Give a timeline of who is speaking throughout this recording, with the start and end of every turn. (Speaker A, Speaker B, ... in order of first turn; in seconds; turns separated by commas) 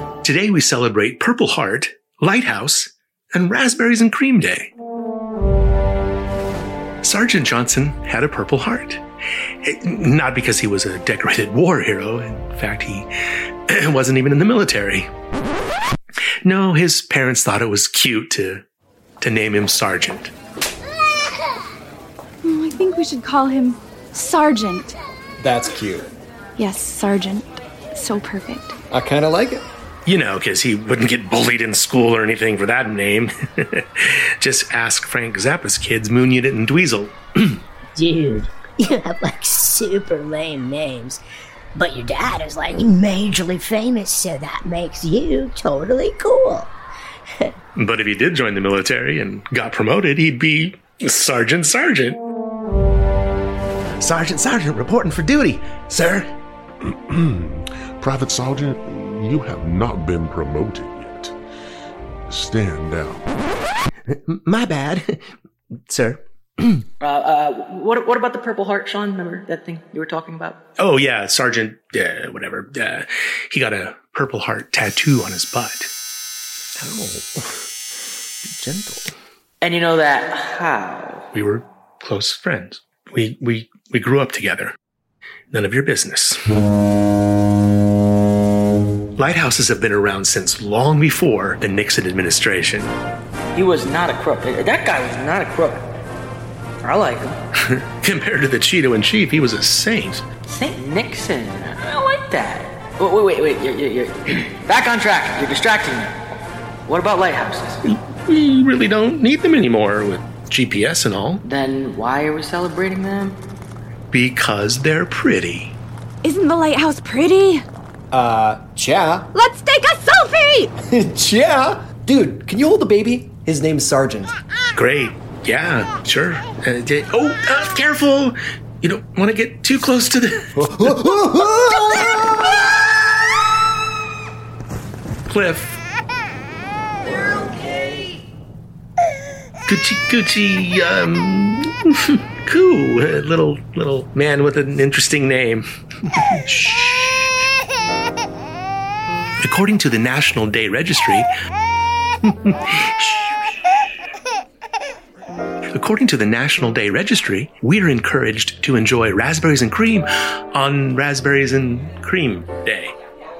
Speaker A: 0.2-4.7, Speaker A: 7.0-9.0, Speaker A: 9.6-13.1, Speaker A: 13.7-15.1, Speaker A: 16.4-18.6, Speaker A: 19.2-20.3, Speaker B: 22.4-24.9, Speaker C: 25.4-26.1, Speaker B: 26.6-28.8, Speaker C: 28.9-29.6, Speaker A: 30.1-37.6, Speaker D: 38.0-41.2, Speaker D: 41.8-46.7, Speaker A: 47.8-52.2, Speaker A: 54.0-56.3, Speaker E: 56.9-61.3, Speaker E: 62.3-63.3, Speaker A: 64.1-65.2, Speaker A: 65.9-66.8, Speaker F: 67.0-70.6, Speaker A: 70.8-75.9, Speaker A: 76.8-77.5, Speaker A: 78.5-79.1, Speaker F: 79.6-81.2, Speaker A: 81.3-84.7, Speaker A: 85.5-86.4, Speaker A: 89.2-92.9, Speaker F: 93.5-95.8, Speaker F: 96.8-97.4, Speaker A: 97.7-100.2, Speaker F: 100.5-106.1, Speaker F: 106.9-107.8, Speaker A: 107.8-111.4, Speaker F: 111.4-113.4, Speaker A: 114.1-115.8, Speaker B: 116.2-117.6, Speaker C: 118.1-119.3, Speaker B: 119.3-120.7, Speaker C: 120.9-124.3, Speaker A: 124.8-131.0, Speaker C: 130.6-132.1, Speaker A: 135.3-135.8, Speaker A: 139.7-147.3, Speaker A: 149.4-151.3, Speaker A: 152.2-153.3, Speaker A: 155.7-162.9